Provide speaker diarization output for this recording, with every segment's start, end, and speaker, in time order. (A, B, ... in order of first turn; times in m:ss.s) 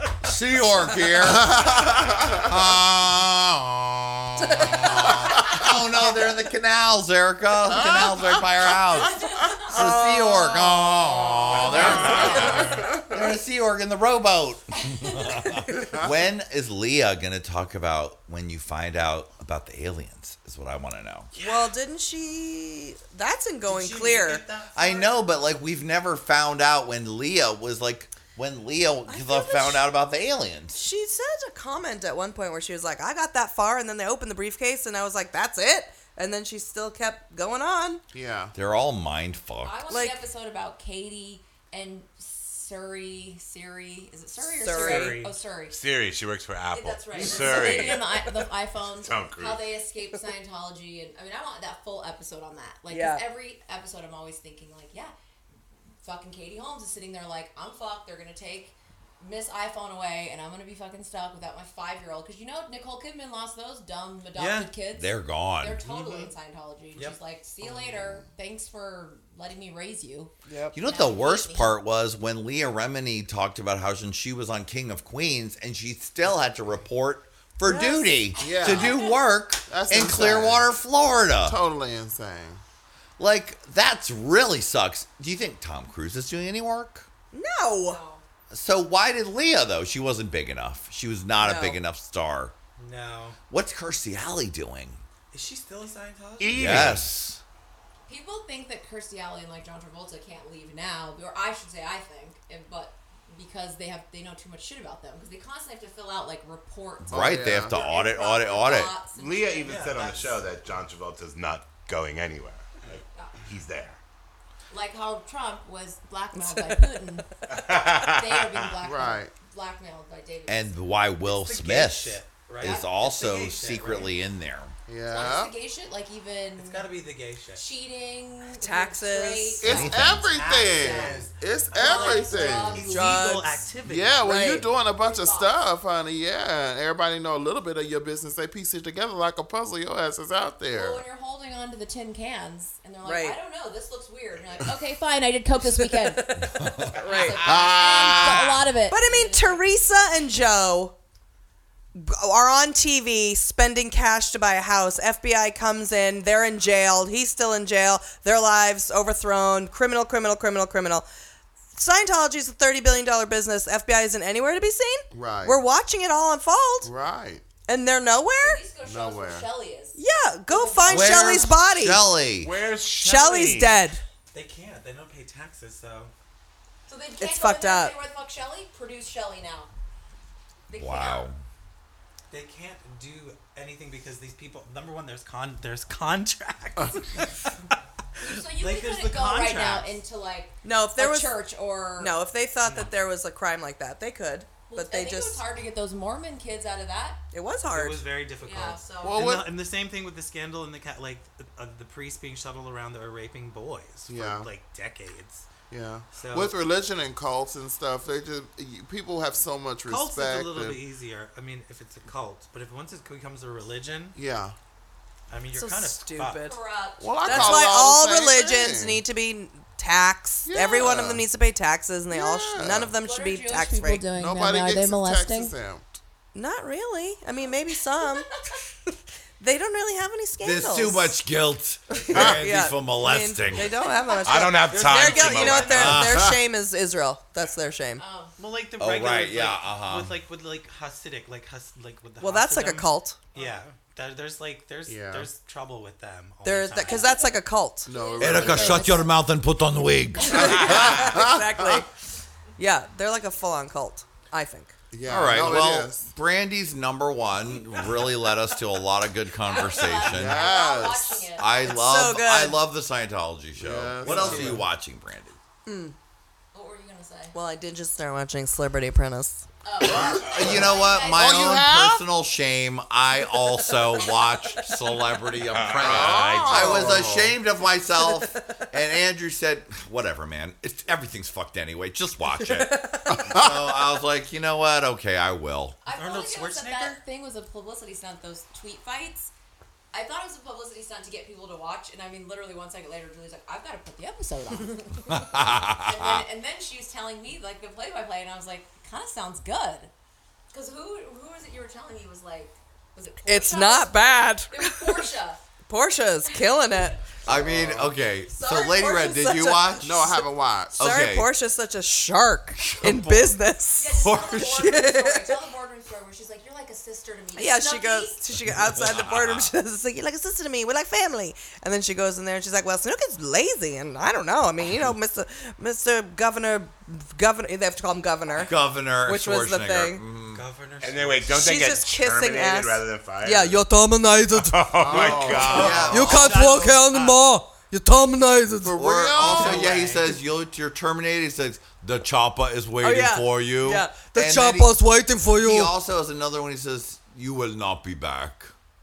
0:00.2-0:21.3 A
0:01.2-0:02.5 B
0:04.4-0:04.8 C
0:07.8-0:08.3 B
0:09.0-0:09.7 D
0:09.7-0:10.6 C
0:11.6-0:13.0 B
0:11.7-0:12.2 D
0:21.4-0:24.4 C
0:21.4-0:21.7 E
0:23.6-0:25.3 F
0:24.7-0:30.8 A
0:29.1-0:29.8 C
0:30.7-0:38.0 C
0:38.1-0:38.5 B
0:38.5-0:39.8 A
0:39.6-0:45.8 D
0:39.9-0:40.2 C
0:44.6-0:45.2 C
0:44.6-0:45.4 F
0:45.7-0:48.3 E
0:46.7-0:55.1 D
0:48.9-0:49.7 E
0:52.9-0:53.2 C
0:56.0-1:11.8 D
1:04.3-1:04.7 F
1:04.9-1:05.8 A
1:05.8-1:06.3 F
1:07.6-1:08.3 B
1:10.5-1:10.8 C
1:10.7-1:21.6 A
1:17.6-1:18.2 C
1:18.4-1:19.1 B
1:18.4-1:19.2 D
1:19.7-1:20.7 B
1:21.4-1:22.6 B
1:23.2-1:27.1 A
1:27.3-1:28.0 C
1:27.8-1:28.2 D
1:28.5-1:32.5 A
1:31.4-1:31.8 C
1:32.8-1:33.4 F
1:33.5-1:35.0 A
1:35.3-1:36.8 F
1:36.4-1:37.1 E
1:36.5-1:37.4 A
1:38.1-1:49.9 D
1:47.1-1:48.9 A
1:47.1-1:47.8 B
1:49.1-1:54.0 E
1:49.6-1:50.5 F
1:54.7-1:57.3 D
1:56.3-1:56.8 C
1:57.5-1:58.7 E
1:58.0-2:00.8 D
1:58.8-1:59.3 B
2:00.5-2:04.7 A
2:01.2-2:04.1 F
2:04.9-2:05.5 B
2:05.1-2:06.9 D
2:06.6-2:07.6 F
2:07.5-2:10.1 D
2:08.6-2:09.7 C
2:09.6-2:12.9 B
2:09.7-2:14.6 F
2:09.7-2:10.1 A
2:10.7-2:13.1 D
2:12.8-2:13.6 C
2:13.8-2:21.0 B
2:14.2-2:14.7 C
2:15.0-2:15.5 D
2:20.7-2:29.6 D
2:23.0-2:23.4 C
2:25.8-2:27.5 C
2:27.4-2:28.6 A
2:27.6-2:28.2 B
2:28.9-2:30.9 C
2:31.9-2:41.0 C
2:41.7-2:46.9 C
2:45.1-2:45.6 B
2:46.8-2:47.4 B
2:47.7-2:48.6 C
2:48.4-2:51.5 D
2:48.8-2:49.5 B
2:49.9-2:52.0 C
2:50.9-2:52.5 A
2:52.4-2:53.8 E
2:53.0-2:54.0 C
2:54.3-2:56.1 F
2:56.9-2:59.7 D
2:57.2-2:57.9 C
3:00.7-3:01.3 D
3:00.7-3:01.4 A
3:02.3-3:07.5 F
3:08.2-3:12.1 D
3:08.4-3:10.0 F
3:10.6-3:11.4 C
3:12.0-3:15.4 C
3:12.6-3:12.9 F
3:14.7-3:17.2 D
3:17.3-3:18.0 C
3:17.7-3:25.5 F
3:18.4-3:19.2 D
3:19.0-3:19.5 B
3:24.1-3:24.5 B
3:25.7-3:30.8 B
3:26.1-3:26.6 F
3:29.8-3:34.2 F
3:34.1-3:34.5 B
3:35.3-3:36.5 F
3:35.5-3:36.6 C
3:36.4-3:37.6 D
3:37.0-3:39.0 B
3:37.2-3:44.1 C
3:40.4-3:41.2 B
3:42.1-3:42.9 B
3:43.0-3:45.5 D
3:44.1-3:46.0 B
3:46.3-3:51.1 C
3:50.4-3:53.7 A
3:52.1-3:58.0 C
3:54.2-3:56.0 E
3:54.6-3:56.1 F
3:55.7-3:56.3 A
3:58.0-3:58.3 D
3:58.4-4:07.2 F
3:58.8-4:00.1 A
4:02.2-4:03.2 C
4:03.3-4:03.6 D
4:04.9-4:05.3 B
4:06.4-4:07.9 C
4:06.8-4:07.3 D
4:07.8-4:09.0 B
4:07.9-4:09.1 D
4:08.2-4:11.1 A
4:10.3-4:11.9 C
4:10.3-4:11.8 B
4:10.3-4:10.7 D
4:12.6-4:14.7 C
4:14.9-4:16.1 B
4:15.0-4:20.5 A
4:19.4-4:21.8 D
4:20.0-4:21.3 B
4:21.4-4:25.4 A
4:21.6-4:22.6 C
4:23.6-4:24.6 B
4:24.0-4:24.6 F
4:25.6-4:25.9 C
4:26.5-4:27.4 D
4:27.3-4:29.4 C
4:29.6-4:31.5 D
4:29.8-4:32.0 B
4:29.9-4:45.8 A
4:35.5-4:36.3 E
4:35.7-4:37.3 B
4:38.1-4:38.3 C
4:42.4-4:43.2 C
4:43.1-4:43.6 B
4:45.8-4:49.3 D
4:45.9-4:47.0 F
4:49.9-4:59.9 D
4:55.1-4:56.2 A
5:00.5-5:05.4 D
5:03.2-5:05.1 C
5:05.7-5:07.0 C
5:07.2-5:08.0 B
5:07.2-5:10.2 A
5:08.3-5:09.4 D
5:08.8-5:10.0 C
5:09.8-5:10.8 B
5:10.8-5:11.3 A
5:10.8-5:14.0 C
5:12.6-5:14.8 A
5:13.8-5:18.2 D
5:14.5-5:15.4 C
5:17.3-5:30.0 C
5:19.0-5:19.3 A
5:28.4-5:30.4 A
5:30.3-5:31.7 F
5:30.8-5:33.6 E
5:31.3-5:34.6 C
5:34.3-5:36.1 E
5:34.8-5:36.0 B
5:35.4-5:36.6 A
5:35.4-5:37.2 F
5:35.9-5:38.8 C
5:38.6-5:39.8 B
5:38.7-5:44.8 A
5:39.3-5:40.2 F
5:42.8-5:45.7 C
5:45.3-5:48.5 A